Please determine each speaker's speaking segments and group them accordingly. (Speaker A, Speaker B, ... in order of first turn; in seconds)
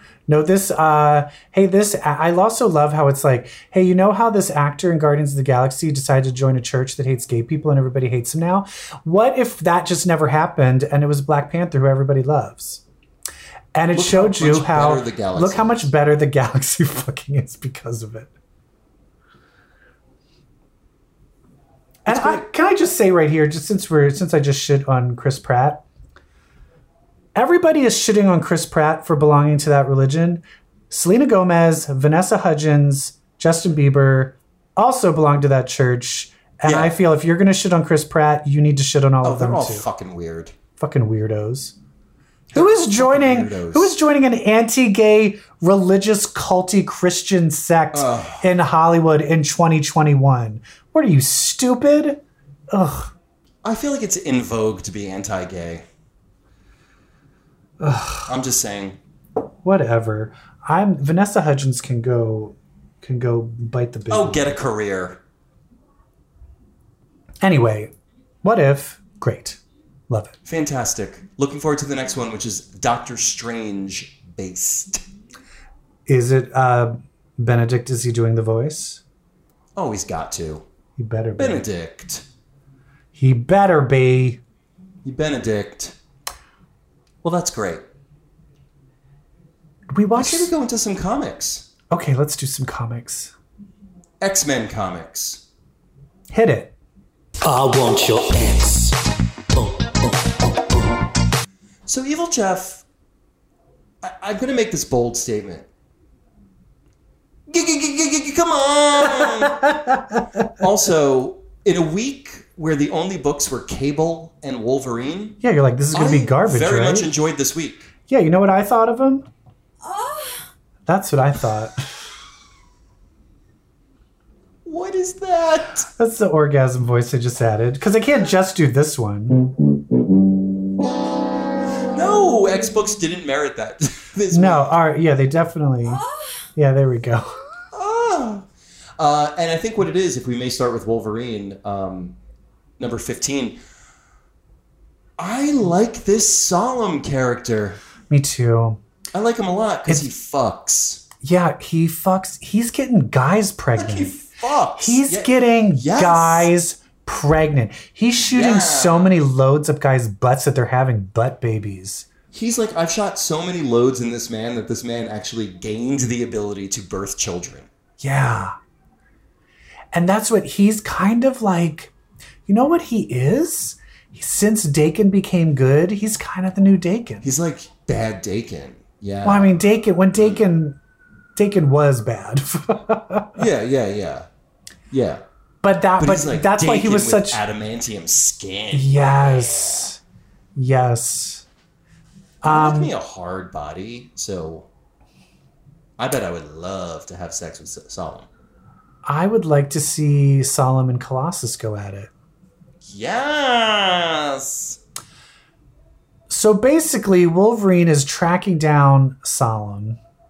Speaker A: 0.3-12.8, 13.7-18.3, 22.0-25.8, 27.4-39.9, 40.8-41.8, 42.5-52.2, 52.7-53.1, 57.8-58.3, 59.6-64.6, 67.4-67.9, 68.4-70.4, 76.1-79.0, 81.0-81.6, 83.1-84.4, 89.9-90.5, 91.9-93.3, 96.3-96.7, 115.4-117.1, 118.1-119.2, 120.8-121.9, 126.0-129.4, 134.3-137.4, 148.1-148.8, 151.2-154.2, 154.8-162.1, 168.0-168.5, 169.9-171.9, 172.4-177.3, 179.2-180.8, 181.3-183.4, 185.6-187.4, 188.7-190.0, 190.6-191.4, 192.4-192.9, 199.1-202.1, 206.3-210.0
Speaker B: 13.9-15.9, 22.1-22.4, 36.6-37.0, 39.2-40.5, 42.5-43.9, 47.9-48.5, 53.6-55.8, 58.3-59.0, 64.1-65.2, 70.4-75.0, 79.8-80.6, 81.4-82.2, 85.0-86.0, 87.2-87.8, 90.2-91.7, 94.2-95.4, 101.8-102.8, 104.0-105.7, 107.5-109.8, 110.5-115.4, 115.9-117.9, 124.6-125.9, 131.9-134.8, 137.7-142.2, 142.8-143.6, 145.2-147.8, 149.1-151.1, 153.8-156.5, 158.2-159.2, 162.3-167.7, 177.2-179.6, 180.1-180.4, 183.3-184.3, 184.9-185.2, 186.0-189.9, 192.4-194.7, 196.0-198.3, 202.8-204.8
Speaker C: 97.4-99.0, 99.5-100.1